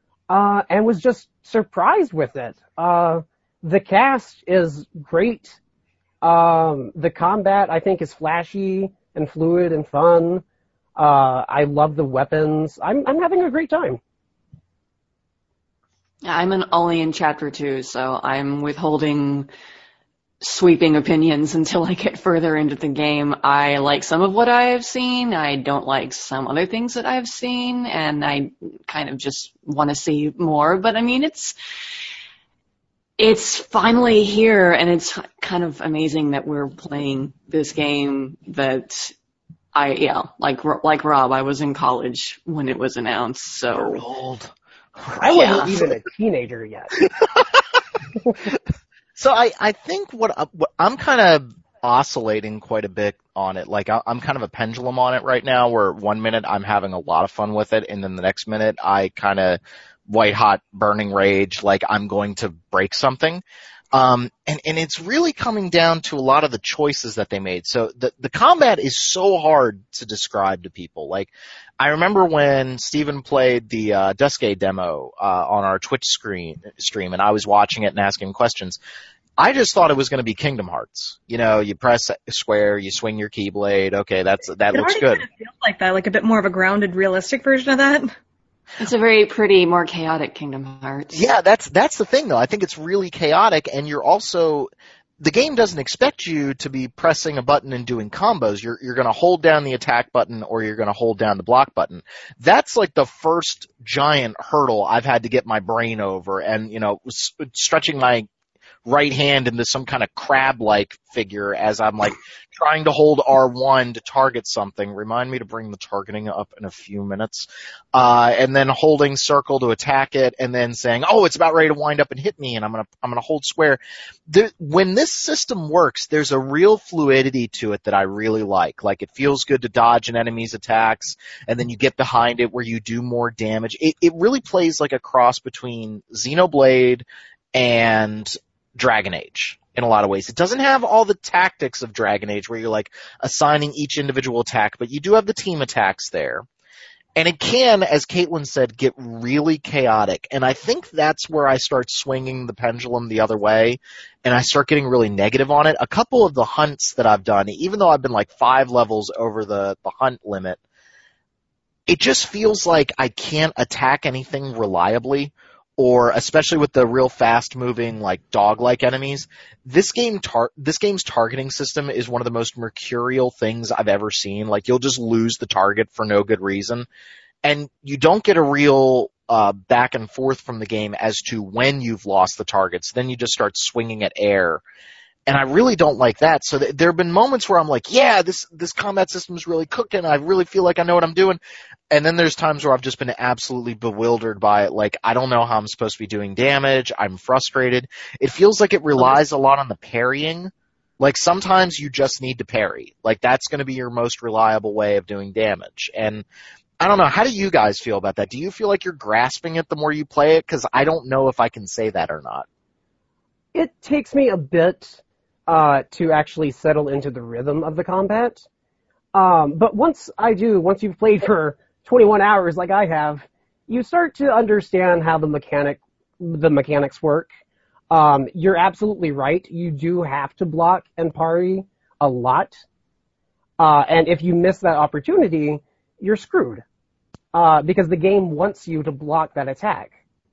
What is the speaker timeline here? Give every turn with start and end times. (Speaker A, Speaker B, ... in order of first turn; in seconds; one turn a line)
Speaker A: 0.3-5.6
Speaker A: 6.2-10.4
Speaker A: 11.0-14.0
Speaker B: 16.2-19.5
Speaker B: 20.4-31.6
Speaker B: 33.2-39.1
Speaker B: 39.8-44.0
Speaker C: 43.8-45.9
Speaker A: 45.2-46.9
Speaker B: 45.3-45.8
Speaker C: 47.0-47.6
Speaker C: 49.2-78.8
Speaker C: 79.4-85.2
Speaker D: 84.7-88.1
Speaker B: 88.8-91.2
Speaker C: 91.1-108.3
Speaker C: 108.8-146.5
Speaker C: 147.2-160.6
Speaker C: 161.9-176.9
Speaker C: 177.4-184.6
Speaker C: 185.3-191.4
Speaker C: 191.9-206.2
Speaker C: 206.8-212.5
Speaker A: 213.5-218.4
Speaker A: 219.1-227.3
Speaker A: 227.9-232.5
Speaker A: 233.6-236.6
Speaker A: 237.3-239.9